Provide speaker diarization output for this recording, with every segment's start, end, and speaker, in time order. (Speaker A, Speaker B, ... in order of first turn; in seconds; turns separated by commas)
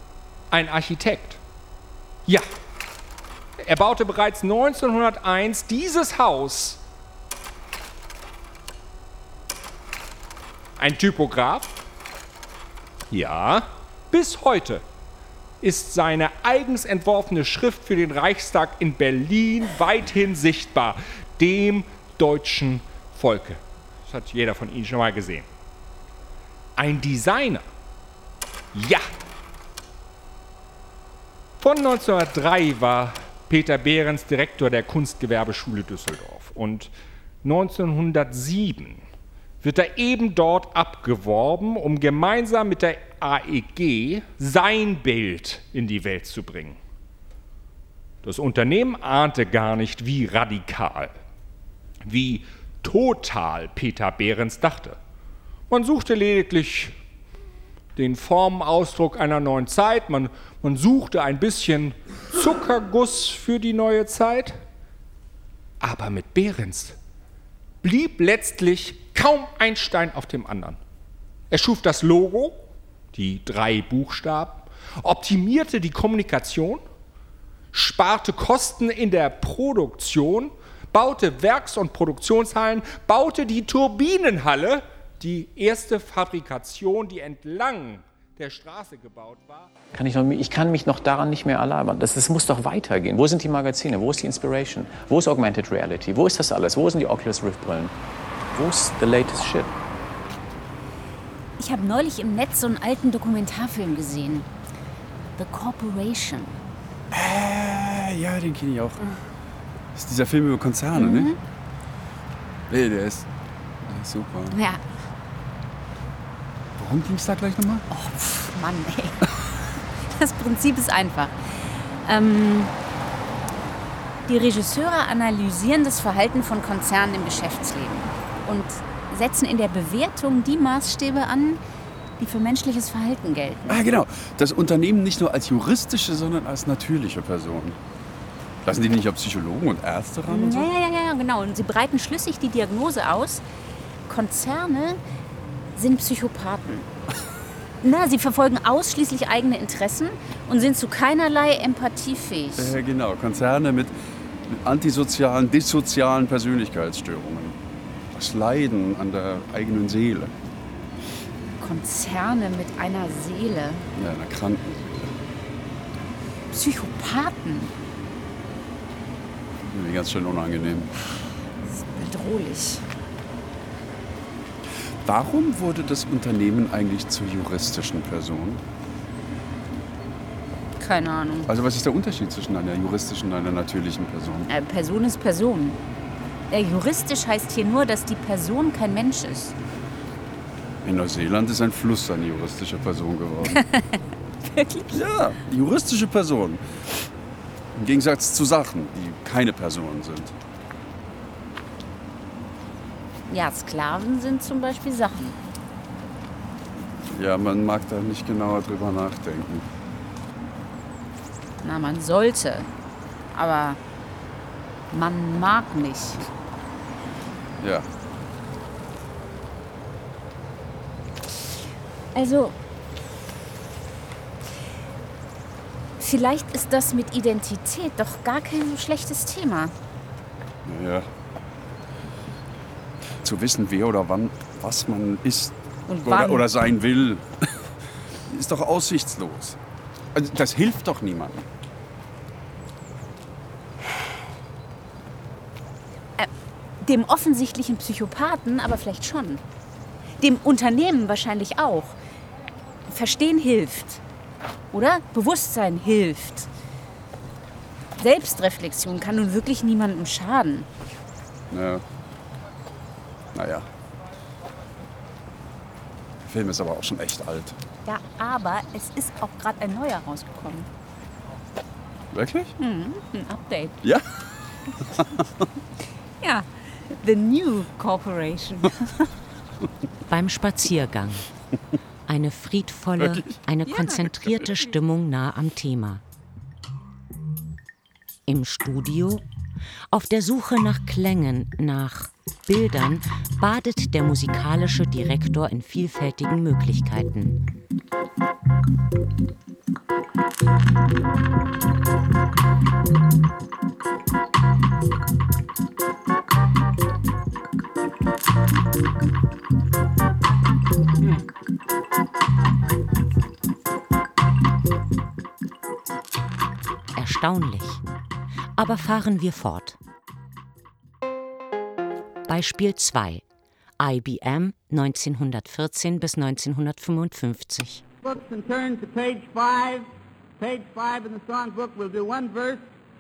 Speaker A: 0.5-1.4, Speaker A: 3.6-6.8, Speaker A: 10.8-11.8, Speaker A: 13.1-14.8, Speaker A: 15.6-25.5, Speaker A: 26.8-27.6, Speaker A: 28.7-29.1, Speaker A: 31.6-36.9, Speaker A: 37.4-39.0, Speaker A: 39.6-46.8, Speaker A: 48.2-51.2, Speaker A: 52.0-55.0, Speaker A: 55.7-57.0, Speaker A: 58.0-64.6, Speaker A: 65.8-67.0, Speaker A: 67.8-70.8, Speaker A: 71.5-76.8, Speaker A: 77.7-89.7, Speaker B: 89.9-97.9, Speaker B: 98.5-99.7, Speaker C: 101.6-104.5, Speaker C: 105.4-106.6, Speaker D: 107.1-109.1, Speaker D: 110.0-111.3, Speaker C: 111.0-111.4, Speaker D: 112.7-113.3, Speaker D: 113.9-114.6, Speaker C: 114.5-114.8, Speaker D: 116.8-117.8, Speaker C: 117.9-119.2, Speaker C: 120.0-122.7, Speaker C: 124.3-131.6, Speaker C: 132.2-133.8, Speaker D: 133.7-137.8, Speaker D: 138.7-140.7, Speaker C: 140.3-143.4, Speaker C: 144.1-145.0, Speaker C: 145.7-146.9, Speaker C: 147.8-152.8, Speaker D: 152.6-153.9, Speaker D: 154.5-157.6, Speaker D: 158.1-160.3, Speaker C: 161.6-163.9, Speaker D: 163.9-165.1, Speaker C: 166.5-167.7, Speaker D: 169.7-170.9, Speaker C: 171.7-172.8, Speaker D: 175.0-178.6, Speaker C: 180.8-181.5, Speaker D: 181.5-184.5, Speaker C: 184.5-185.8, Speaker C: 186.5-189.6, Speaker D: 190.8-193.6, Speaker C: 193.5-194.9, Speaker D: 194.9-196.7, Speaker D: 197.8-200.3, Speaker C: 203.3-205.4, Speaker D: 207.1-209.7, Speaker C: 211.6-212.7, Speaker C: 213.3-213.8, Speaker C: 214.9-216.2, Speaker D: 217.6-217.9, Speaker C: 222.2-222.6, Speaker C: 226.0-229.7, Speaker D: 230.7-231.1, Speaker D: 233.2-237.3, Speaker C: 235.9-236.5, Speaker D: 238.3-239.6, Speaker D: 240.1-241.5, Speaker C: 246.8-249.4, Speaker C: 250.2-252.0, Speaker C: 252.9-254.0, Speaker C: 254.7-256.5, Speaker C: 258.0-260.7, Speaker D: 261.5-261.8, Speaker D: 263.3-263.7, Speaker D: 266.2-267.6, Speaker C: 267.9-270.7, Speaker D: 272.1-272.5, Speaker C: 272.6-273.8, Speaker C: 276.2-279.0, Speaker E: 280.1-281.3, Speaker E: 282.1-286.0, Speaker D: 283.0-283.4, Speaker C: 283.7-284.1, Speaker E: 288.3-289.2, Speaker E: 289.9-297.4, Speaker E: 316.9-317.8, Speaker E: 318.6-319.8, Speaker E: 322.3-323.2, Speaker E: 323.8-327.8, Speaker F: 328.0-329.9, Speaker F: 330.4-332.6